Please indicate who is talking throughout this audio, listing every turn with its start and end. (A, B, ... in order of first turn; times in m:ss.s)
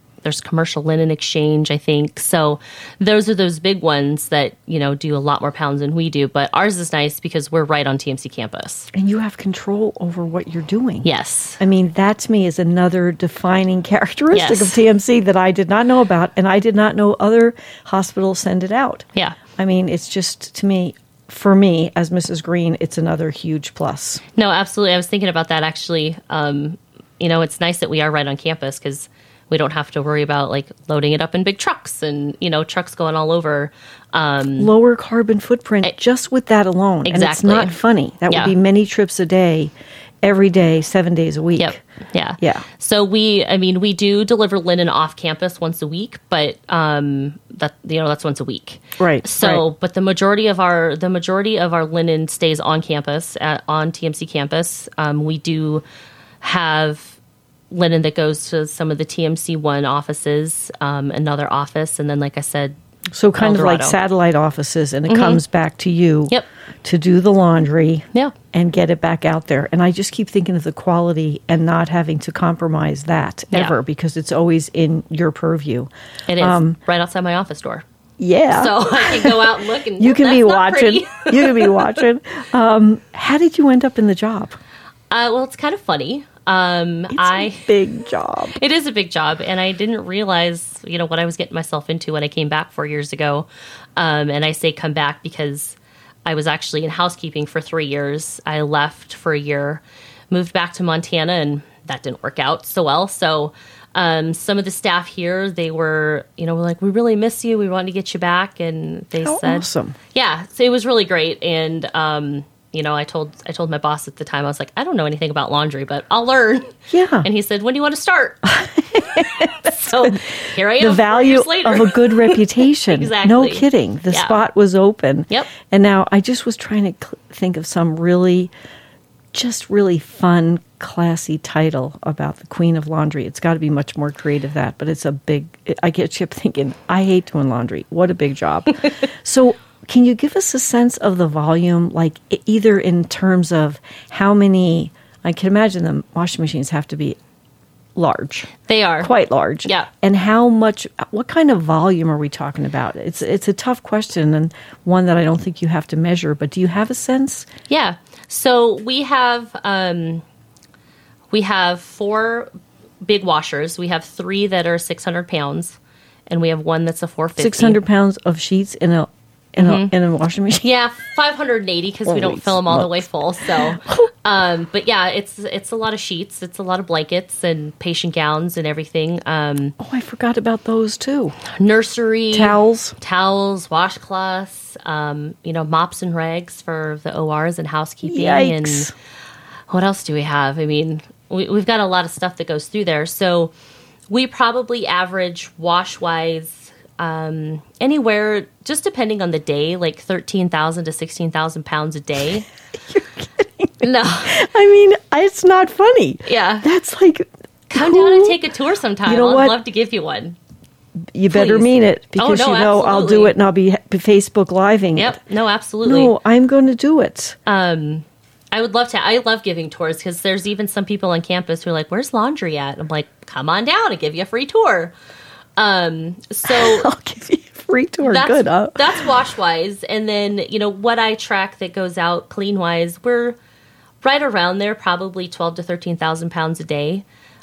0:00.2-0:08.9 A
0:08.9-0:11.1 B
0:11.0-0:11.6 A
0:11.6-0:24.2 B
0:14.3-0:14.8 A
0:24.4-0:34.7 A
0:34.6-0:41.8 B
0:37.0-0:37.8 A
0:38.3-0:38.6 A
0:41.6-0:55.8 A
0:42.4-0:42.6 B
0:49.0-0:49.6 B
0:56.4-0:57.2 A
0:57.7-1:02.8 A
1:03.1-1:16.8 B
1:03.4-1:04.0 A
1:05.1-1:05.4 A
1:13.5-1:13.8 A
1:16.3-1:17.8 A
1:18.2-1:19.4 B
1:18.5-1:21.9 A
1:20.0-1:24.6 B
1:25.1-1:27.7 A
1:27.1-1:28.6 B
1:28.5-2:04.4 A
1:49.2-1:50.0 B
1:56.9-1:57.3 B
1:58.5-2:08.5 B
2:09.3-2:27.2 B
2:28.0-2:37.5 B
2:28.7-2:29.1 A
2:37.7-2:40.2 A
2:41.3-2:42.5 A
2:43.0-2:45.8 A
2:46.3-2:47.8 A
2:47.4-2:50.7 B
2:49.6-2:49.9 A
2:50.6-2:59.8 A
2:52.1-2:53.1 B
2:53.6-2:54.0 B
2:59.8-3:01.4 B
3:01.5-3:08.9 A
3:02.3-3:03.0 B
3:08.0-3:08.9 B
3:09.7-3:13.5 A
3:14.1-3:22.5 A
3:22.9-3:28.4 B
3:23.8-3:24.4 A
3:26.3-3:26.7 A
3:27.7-3:30.4 A
3:29.1-3:29.6 B
3:31.1-3:35.2 B
3:31.3-3:33.3 A
3:35.0-3:36.1 A
3:35.8-3:37.4 B
3:37.5-3:44.9 A
3:45.6-3:46.9 A
3:46.4-3:48.9 B
3:48.0-3:53.4 A
3:54.0-3:57.0 A